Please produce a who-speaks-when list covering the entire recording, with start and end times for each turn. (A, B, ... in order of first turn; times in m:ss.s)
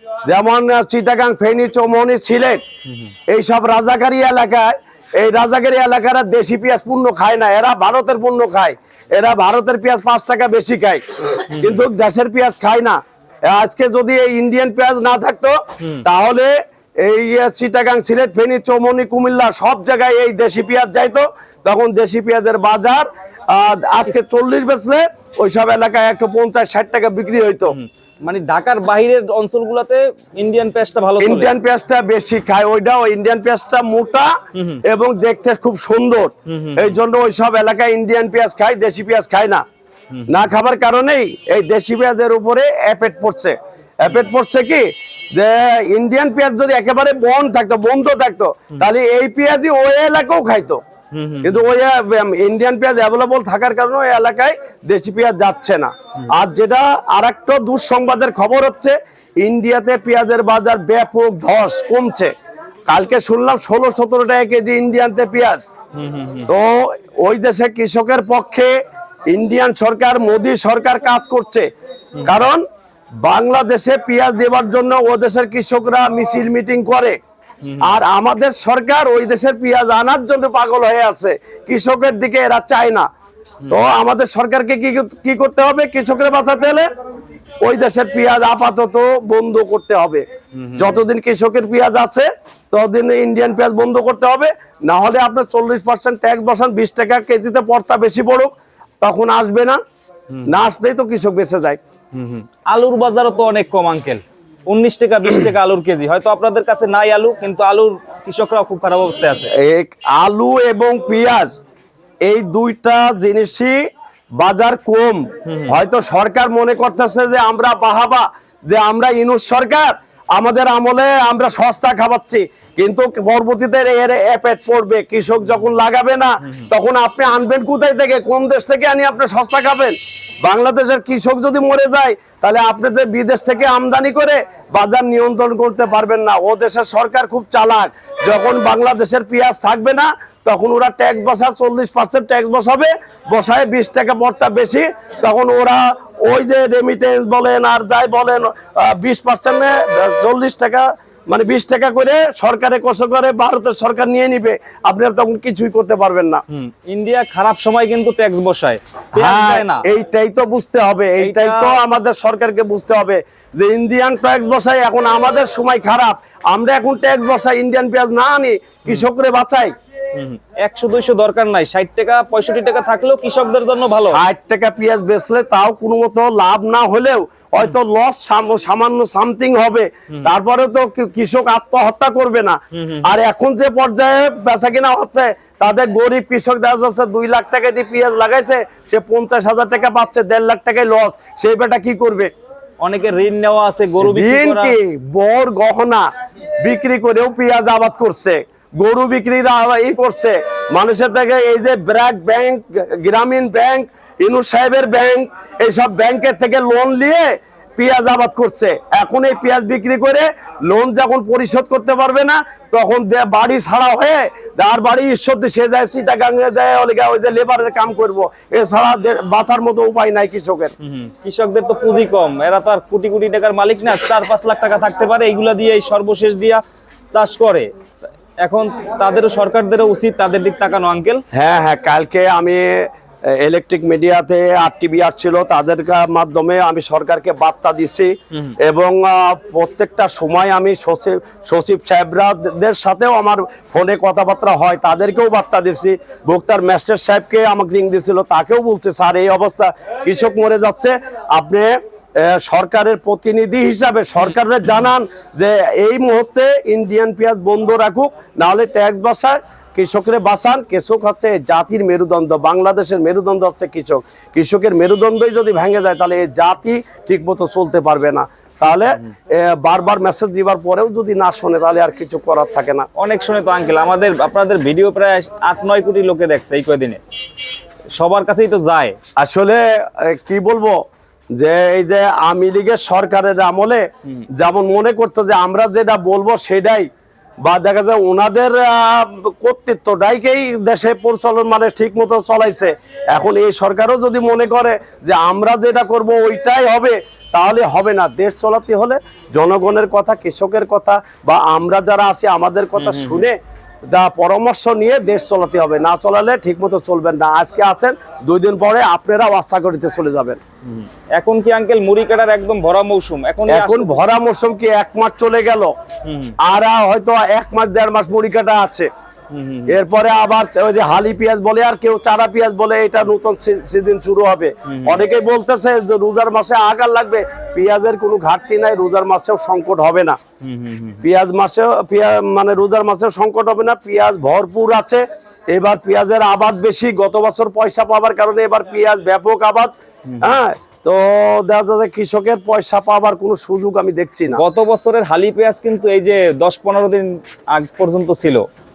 0:00.2-0:02.6 A
0:03.3-0:27.8 A
0:11.5-0:11.8 B
0:27.7-0:31.5 B
0:31.2-0:39.6 A
0:34.5-0:34.8 B
0:36.5-0:37.0 B
0:40.3-0:50.8 A
0:51.1-0:51.6 B
0:51.4-1:02.3 A
1:02.9-1:05.6 A
1:06.0-1:06.5 B
1:06.5-1:08.7 A
1:09.3-1:11.6 A
1:12.2-1:12.6 A
1:13.2-1:17.2 A
1:17.6-1:17.9 B
1:17.8-1:23.1 A
1:23.7-1:26.9 A
1:27.6-1:30.2 A
1:30.6-1:31.0 B
1:30.8-1:39.8 A
1:40.4-1:41.8 A
1:42.1-1:49.5 B
1:49.5-1:51.6 A
1:52.2-1:53.8 A
1:54.4-2:36.4 A
1:55.5-1:55.8 B
2:36.5-2:39.8 B
2:39.2-2:49.7 A
2:41.2-2:41.8 B
2:50.1-2:54.2 B
2:54.0-3:12.3 A
3:02.7-3:03.1 B
3:12.8-3:14.8 B
3:14.0-3:16.1 A
3:16.6-3:40.7 A
3:40.8-3:47.7 B
3:48.4-3:51.2 B
3:51.3-4:32.9 A
4:33.0-4:37.0 B
4:37.9-4:39.0 B
4:39.2-4:40.8 A
4:41.4-4:46.9 A
4:47.4-5:03.4 A
5:02.8-5:03.3 B
5:03.9-5:10.4 A
5:10.6-5:14.0 B
5:13.5-5:15.7 A
5:16.0-5:16.3 B
5:16.4-5:18.9 A
5:19.3-5:19.8 B
5:19.7-5:30.2 A
5:24.7-5:25.0 B
5:30.4-5:31.0 B
5:31.0-5:44.4 A
5:44.3-5:48.4 B